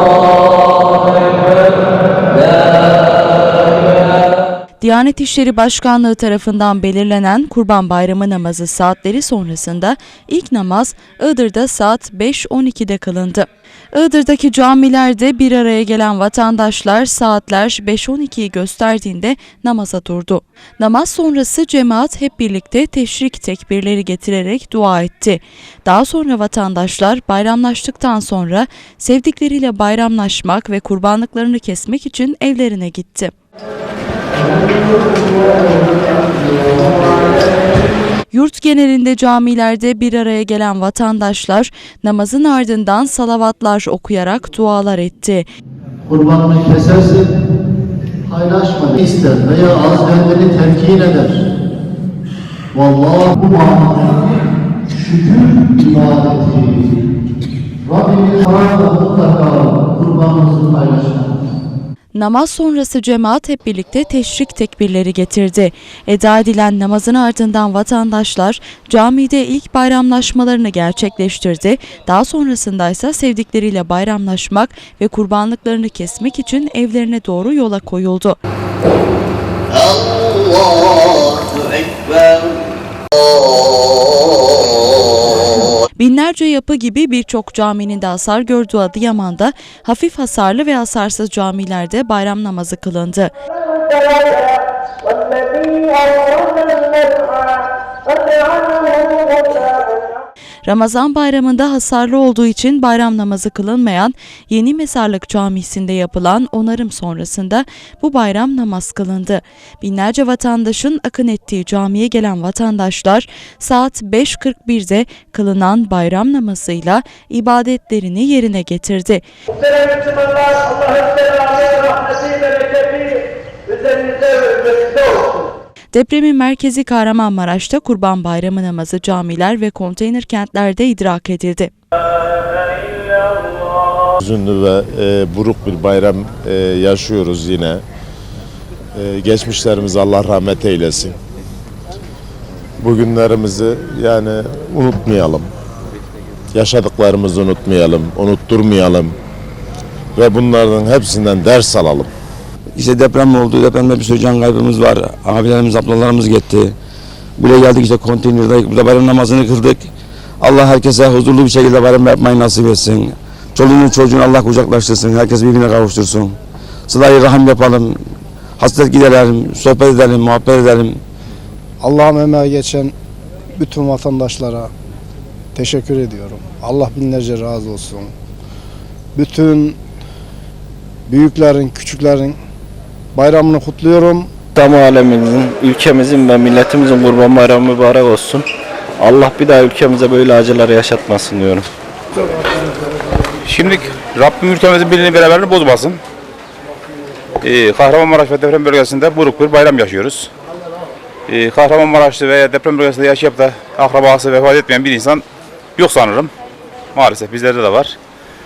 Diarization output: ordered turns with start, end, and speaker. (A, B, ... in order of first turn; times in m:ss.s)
0:04.8-0:33.3 A
0:38.3-0:45.4 A
0:46.1-0:47.3 B
0:48.3-0:51.4 B
0:52.7-0:57.0 B
0:57.8-1:01.4 B
1:02.1-1:18.4 A
1:26.0-1:33.3 A
1:33.9-1:39.9 C
1:40.6-1:59.2 A
1:59.8-2:03.1 C
2:03.7-2:05.2 C
2:05.9-2:11.7 A
2:14.2-2:17.8 D
2:19.0-2:21.2 D
2:22.8-2:25.5 D
2:26.5-2:29.1 D
2:30.2-2:32.1 D
2:32.8-2:36.7 E
2:37.4-2:46.4 E
2:46.9-2:48.0 E
2:48.6-2:51.0 E
2:51.8-2:52.9 F
2:53.6-2:54.7 F
2:55.5-2:58.1 F
2:59.1-2:59.8 F
3:01.1-3:02.4 F
3:03.1-3:04.3 F
3:04.6-3:08.4 G
3:09.0-3:11.6 G
3:13.4-3:16.0 H
3:17.4-3:20.3 H
3:21.3-3:25.2 H
3:25.8-3:26.3 H
3:26.9-3:27.9 H